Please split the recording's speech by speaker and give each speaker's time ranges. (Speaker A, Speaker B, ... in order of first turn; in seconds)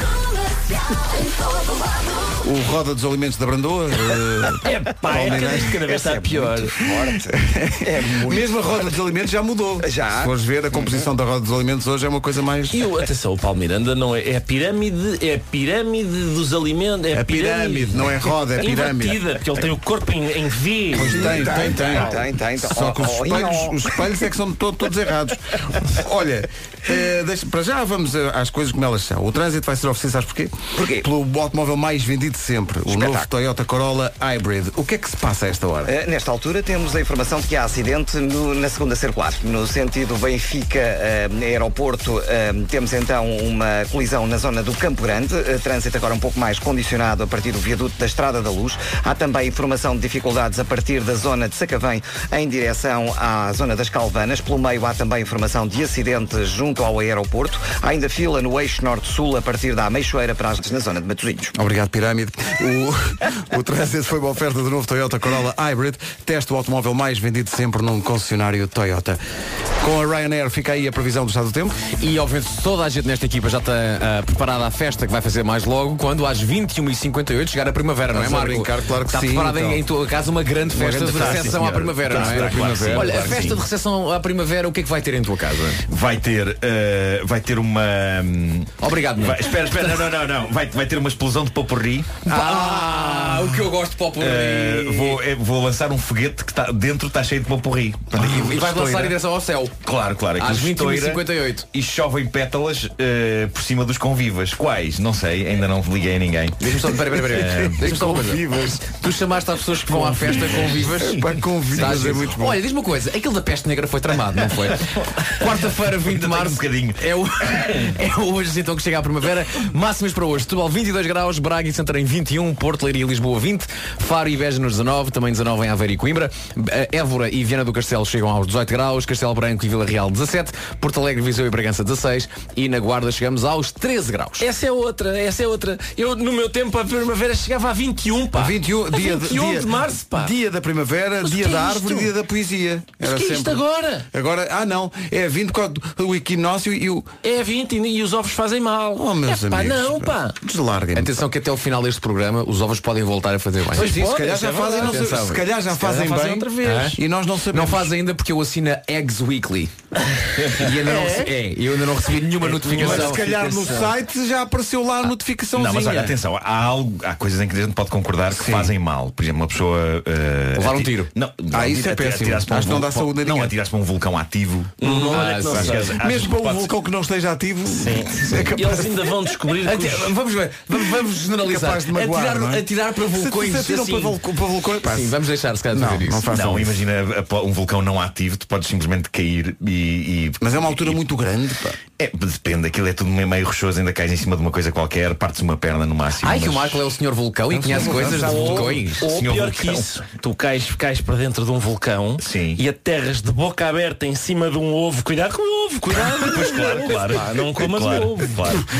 Speaker A: 2.4-5.9, 6.5-12.9, 17.1-19.2, 20.9-35.9, 61.5-69.2, 69.8-71.9, 78.1-79.9, 80.7-83.5, 92.4-93.4, 98.2-99.2, 107.1-108.9, 110.0-112.6, 138.3-143.6, 144.1-147.1, 148.9-151.3, 153.7-157.9, 162.7-166.2, 168.4-168.7, 171.5-173.5, 174.8-179.2, 181.4-185.2, 185.7-186.8, 190.4-191.8, 197.6-198.8
Speaker B: 4.5-6.8, 12.7-22.0, 134.4-140.3, 141.2-142.1, 143.0-144.1, 147.2-150.3, 153.7-155.1, 155.7-157.0, 160.1-161.3, 162.4-163.9, 174.8-176.0, 177.7-180.1, 197.8-208.6
Speaker C: 5.3-8.9, 9.8-11.0, 20.9-24.0, 30.8-31.1, 32.9-33.3, 35.9-61.5
Speaker D: 71.9-85.8, 88.8-90.1, 92.2-95.2, 98.1-99.7, 100.4-101.7, 106.6-134.5, 150.9-154.0, 154.7-155.4, 156.6-157.0, 157.5-159.7, 160.4-163.2, 170.6-171.1, 175.1-175.8, 179.6-184.2, 184.8-186.3, 196.2-199.0
Speaker E: 81.0-83.6, 85.8-92.5, 94.2-98.6, 99.8-106.6, 107.3-107.8, 110.3-110.7, 111.7-112.1, 114.6-117.9, 165.5-176.7, 186.2-191.0, 192.0-196.8, 198.9-200.0, 202.2-202.6, 206.1-208.6